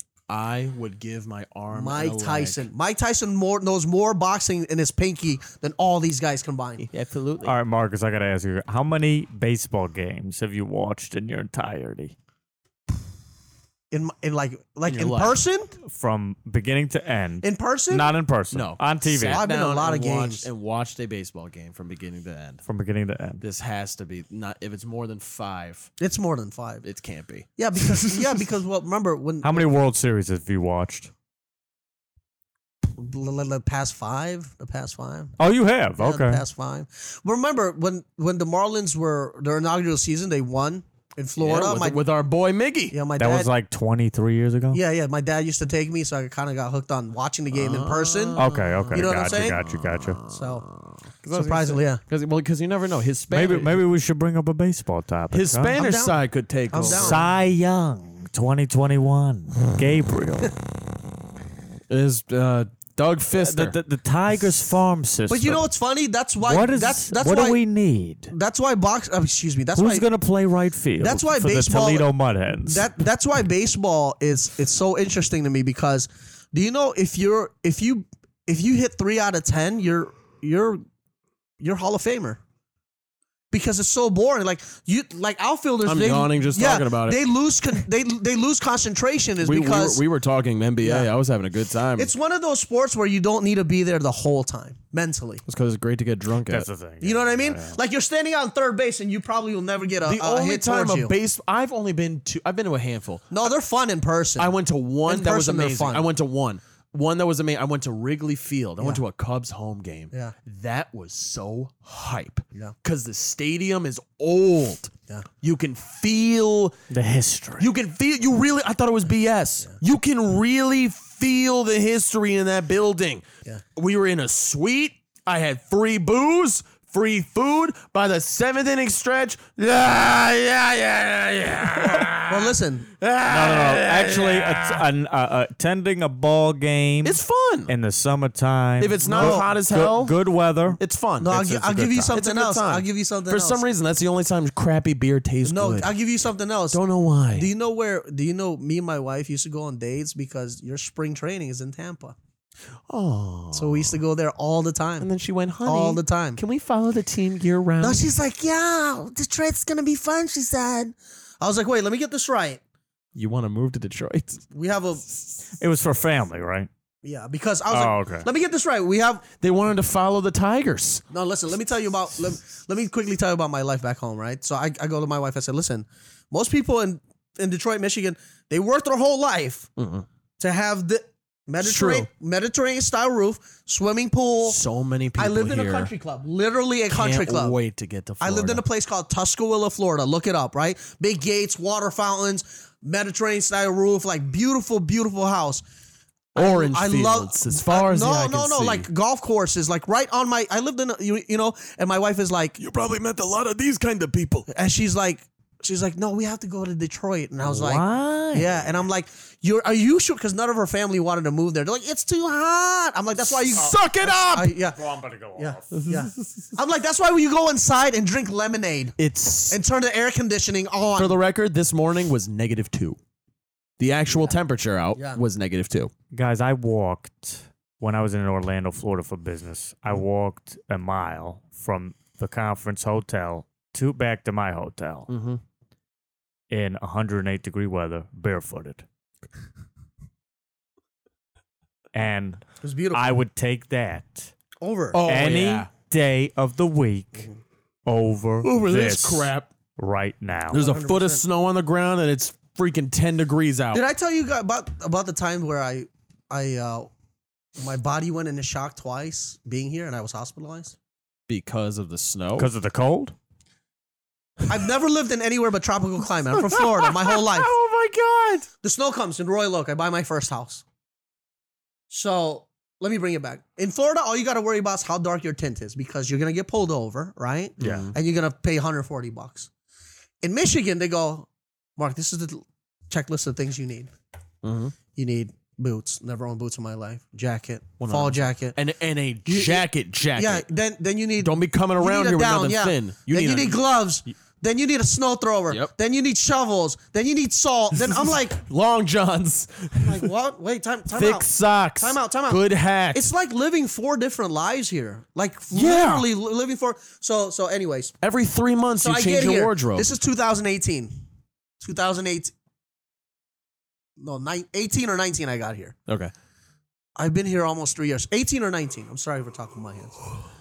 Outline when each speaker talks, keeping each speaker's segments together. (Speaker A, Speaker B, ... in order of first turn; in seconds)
Speaker A: 0.3-2.7, 6.8-7.5, 14.9-15.4, 18.5-22.6, 23.4-25.9, 26.8-28.5, 41.4-43.0, 47.5-53.8, 55.3-57.2, 61.9-63.8, 85.8-87.2, 89.4-92.1, 95.5-96.7, 100.0-103.3, 104.4-116.8, 117.6-123.2, 123.8-134.8, 137.0-137.7, 138.8-140.2, 140.7-145.9, 146.7-147.5, 152.9-154.0, 155.0-158.0, 163.1-164.4, 169.4-171.0, 179.8-180.1, 181.6-182.1, 184.4-185.9, 186.9-188.6, 196.3-198.9, 202.6-204.5, 213.4-214.5, 215.7-216.5, 219.0-219.6, 220.9-223.0, 223.8-225.9, 235.1-235.4, 244.9-245.7, 248.4-249.5, 250.5-253.8, 261.3-262.5, 266.3-268.5, 277.6-277.9, 284.4-284.7, 287.8-290.4, 291.2-293.6, 297.8-300.1, 300.9-303.1, 305.5-306.1, 308.0-309.9
Speaker B: 1.7-6.9, 13.9-15.7, 17.4-18.1, 19.3-20.5, 26.0-26.8, 27.6-29.7, 32.8-35.4, 36.0-42.0, 42.9-43.5, 44.7-48.4, 48.9-49.6, 50.3-50.6, 51.3-52.0, 55.7-57.3, 65.3-67.6, 68.3-70.1, 71.0-72.1, 72.6-80.8, 81.6-82.4, 83.5-90.0, 90.8-91.1, 92.0-95.4, 97.0-101.1, 103.3-104.5, 105.0-106.1, 132.3-132.9, 139.1-139.5, 141.2-143.6, 145.4-146.8, 147.3-152.2, 153.5-155.1, 155.6-156.4, 157.8-162.6, 164.5-165.0, 167.0-169.2, 171.1-179.7, 180.4-184.6, 185.2-187.6, 188.2-195.6, 196.3-202.6, 204.5-214.8, 215.3-218.9, 219.5-221.2, 242.6-243.1, 244.6-245.0, 250.5-251.2, 253.7-256.9, 257.6-260.8, 264.5-267.5, 268.6-270.6, 271.9-279.5, 280.2-283.9, 284.9-288.6, 289.2-298.4, 299.8-301.3, 301.8-307.9, 308.8-310.9, 311.6-312.3, 314.0-315.7, 316.9-320.0
Speaker C: 7.4-12.1, 15.8-19.4, 22.6-23.4, 29.4-31.1, 35.4-36.4, 43.2-44.8, 48.4-50.2, 53.3-55.8, 56.9-60.5, 63.3-65.7, 66.4-68.3, 69.8-72.9, 96.5-97.8, 116.9-117.7, 133.3-140.8, 141.5-142.2, 165.6-166.7, 167.7-168.3, 207.4-208.8, 214.7-215.9, 226.1-235.1, 236.5-238.8, 241.9-244.3, 245.0-247.3, 247.8-250.6, 262.4-263.1, 277.6-277.9